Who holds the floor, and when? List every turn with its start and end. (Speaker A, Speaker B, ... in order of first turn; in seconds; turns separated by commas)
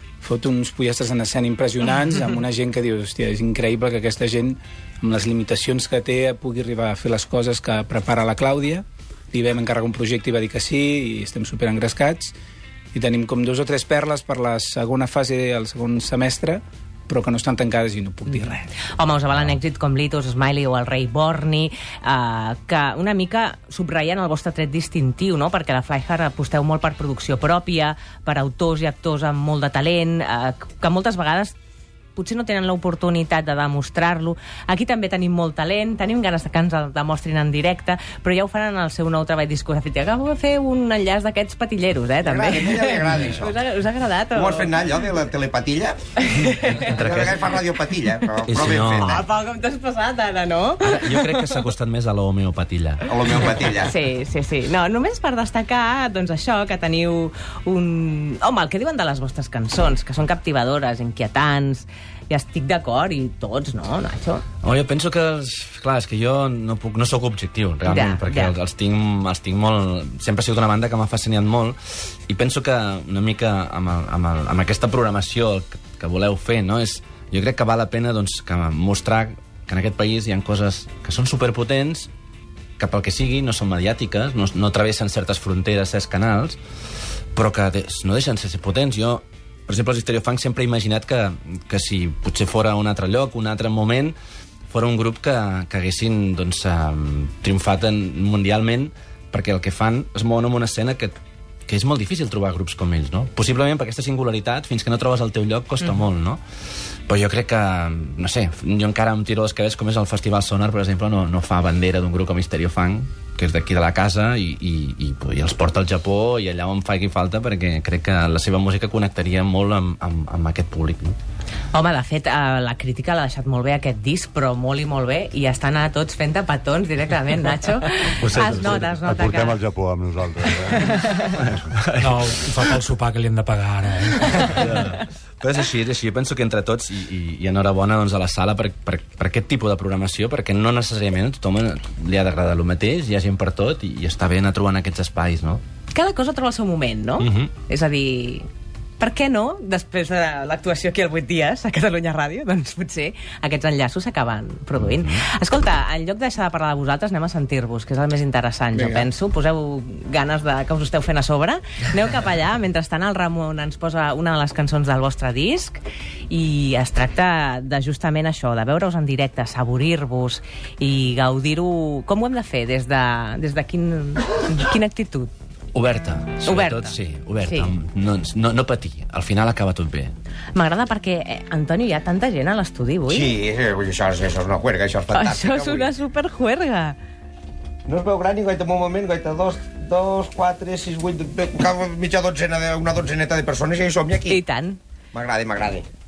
Speaker A: 0.2-12.4, Speaker A: 12.9-18.7, Speaker B: 18.9-31.6, Speaker B: 32.2-44.8, Speaker C: 42.2-43.6, Speaker C: 44.3-46.0, Speaker B: 46.2-47.0, Speaker D: 46.6-47.5, Speaker C: 46.9-49.2, Speaker D: 48.5-49.2, Speaker B: 49.0-51.6, Speaker D: 50.8-53.5, Speaker C: 53.0-53.9, Speaker B: 53.8-64.4, Speaker D: 64.6-82.1, Speaker B: 67.8-68.5, Speaker D: 82.8-86.6, Speaker D: 87.3-94.2, Speaker D: 94.7-101.2, Speaker D: 101.7-106.4, Speaker D: 107.1-121.2, Speaker B: 121.7-129.6, Speaker E: 128.2-131.6, Speaker D: 128.3-128.7, Speaker B: 130.8-131.2, Speaker D: 131.2-132.5, Speaker F: 132.0-134.7, Speaker D: 134.5-145.6, Speaker B: 145.9-148.5, Speaker D: 147.2-147.5, Speaker B: 149.0-175.3, Speaker D: 154.8-155.2, Speaker A: 158.7-159.1, Speaker D: 175.7-180.2, Speaker B: 176.4-177.7, Speaker B: 180.6-183.3, Speaker C: 183.1-185.9, Speaker B: 185.1-187.0, Speaker C: 187.9-194.4, Speaker B: 194.3-194.8, Speaker C: 195.1-195.9